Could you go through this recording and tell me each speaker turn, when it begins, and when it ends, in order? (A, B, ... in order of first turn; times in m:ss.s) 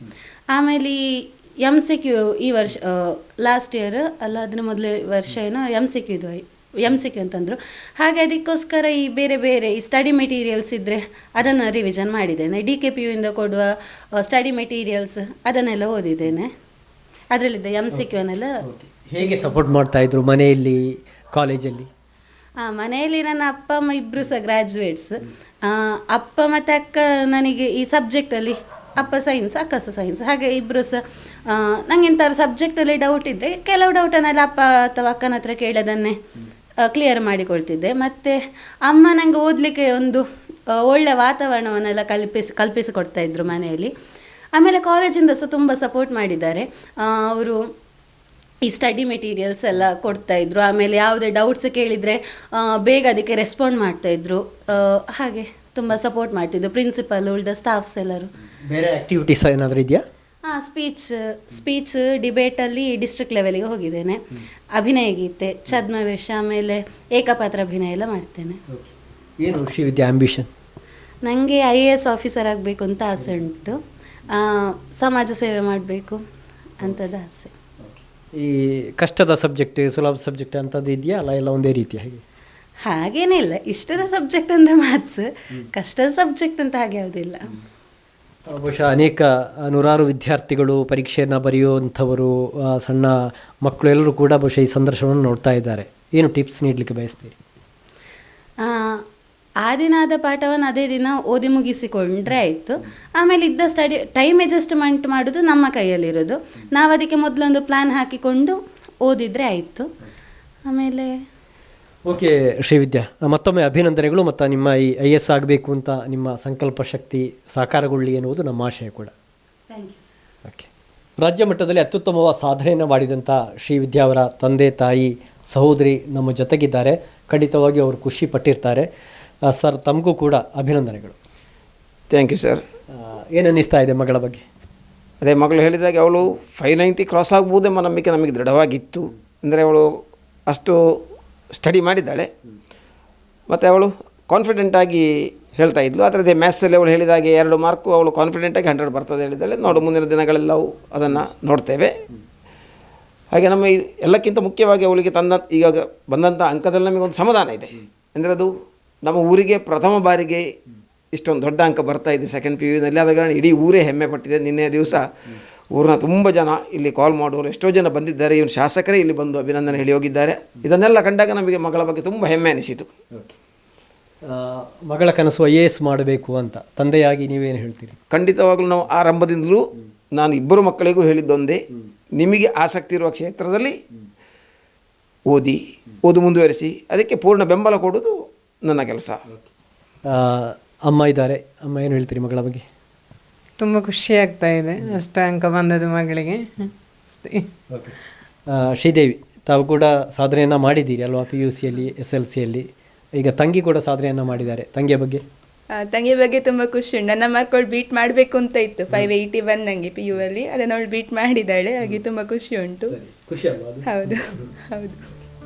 0:00.5-0:16.5 A
0:17.3-0:18.5 A
0:18.6-0:21.9 B
0:22.6-0:36.2 A
0:36.8-0:40.2 A
0:40.7-0:43.9 A
0:44.5-0:47.6 A
0:48.6-0:58.3 A
0:58.6-1:00.0 B
1:00.4-1:04.2 A
1:04.7-1:08.6 A
1:08.7-1:10.5 B
1:11.2-1:13.8 A
1:14.3-1:16.2 A
1:16.8-1:17.5 A
1:17.8-1:22.2 B
1:22.8-1:27.5 A
1:28.5-1:37.4 B
1:38.6-1:39.0 A
1:39.6-1:49.9 A
1:50.6-1:51.1 A
1:52.0-1:59.1 B
1:59.7-2:00.1 A
2:00.4-2:08.9 B
2:09.4-2:11.1 B
2:12.1-2:12.6 C
2:12.9-2:14.4 B
2:15.2-2:19.9 C
2:20.5-2:21.0 C
2:21.5-2:22.3 C
2:23.5-2:32.0 C
2:33.3-2:38.5 C
2:39.0-2:40.5 C
2:41.1-2:45.1 C
2:45.7-2:52.9 C
2:54.2-2:58.0 B
2:58.1-3:01.6 C
3:02.2-3:03.8 C
3:05.2-3:09.2 C
3:10.0-3:12.6 B
3:13.6-3:17.5 D
3:17.7-3:18.0 B
3:18.5-3:25.2 B
3:25.7-3:33.0 E
3:32.9-3:34.5 B
3:33.8-3:35.0 E